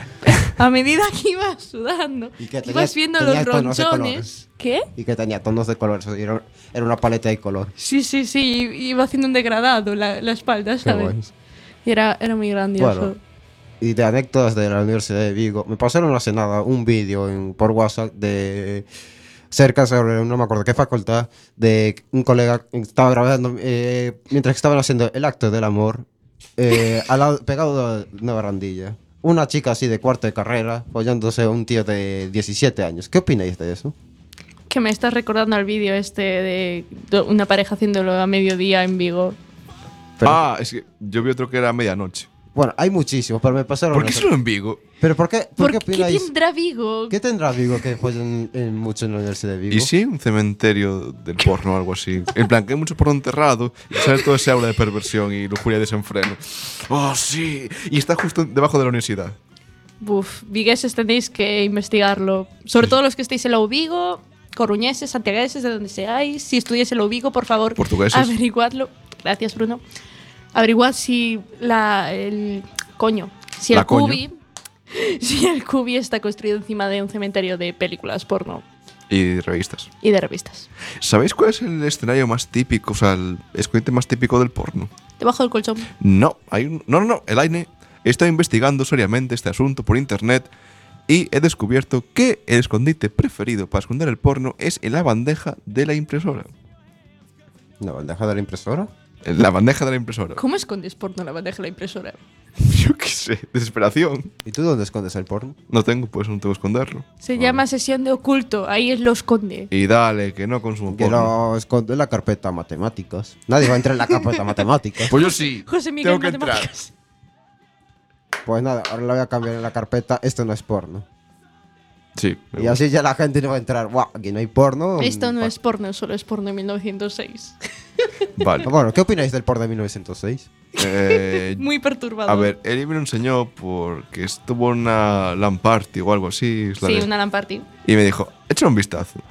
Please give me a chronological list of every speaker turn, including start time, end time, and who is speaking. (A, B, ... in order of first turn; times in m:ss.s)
0:00.2-0:04.9 A
0:02.4-0:04.3 B
0:05.0-0:07.7 B
0:07.8-0:11.2 A
0:10.8-0:11.3 B
0:11.8-0:13.2 A
0:12.8-0:13.1 B
0:13.8-0:18.8 B
0:19.5-0:33.9 B
0:34.7-0:39.4 A
0:40.2-0:42.3 C
0:42.5-0:44.3 B
0:43.9-0:44.8 C
0:45.0-0:46.3 B
0:45.6-0:47.2 A
0:47.1-0:49.9 B
0:49.7-0:59.4 C
1:00.0-1:09.8 A
1:07.8-1:08.4 C
1:10.5-1:14.4 A
1:13.7-1:14.2 C
1:14.9-1:18.6 A
1:19.1-1:19.9 C
1:20.0-1:20.7 A
1:21.0-1:24.9 C
1:25.2-1:25.9 A
1:26.0-1:30.5 C
1:31.1-1:36.5 C
1:37.8-1:38.9 B
1:39.2-1:40.4 C
1:40.4-1:42.2 A
1:42.6-1:44.3 C
1:44.4-1:45.6 B
1:45.7-1:47.0 C
1:47.2-1:49.7 A
1:47.3-1:47.6 B
1:49.7-1:51.3 C
1:50.9-1:55.1 B
1:55.1-1:56.9 A
1:55.1-1:56.7 C
1:58.4-2:01.1 B
2:02.2-2:02.8 C
2:02.6-2:05.5 B
2:05.0-2:07.6 A
2:08.4-2:08.7 C
2:08.6-2:10.5 B
2:10.8-2:11.7 C
2:10.8-2:12.5 A
2:12.2-2:17.1 C
2:16.8-2:17.7 A
2:17.8-2:19.2 C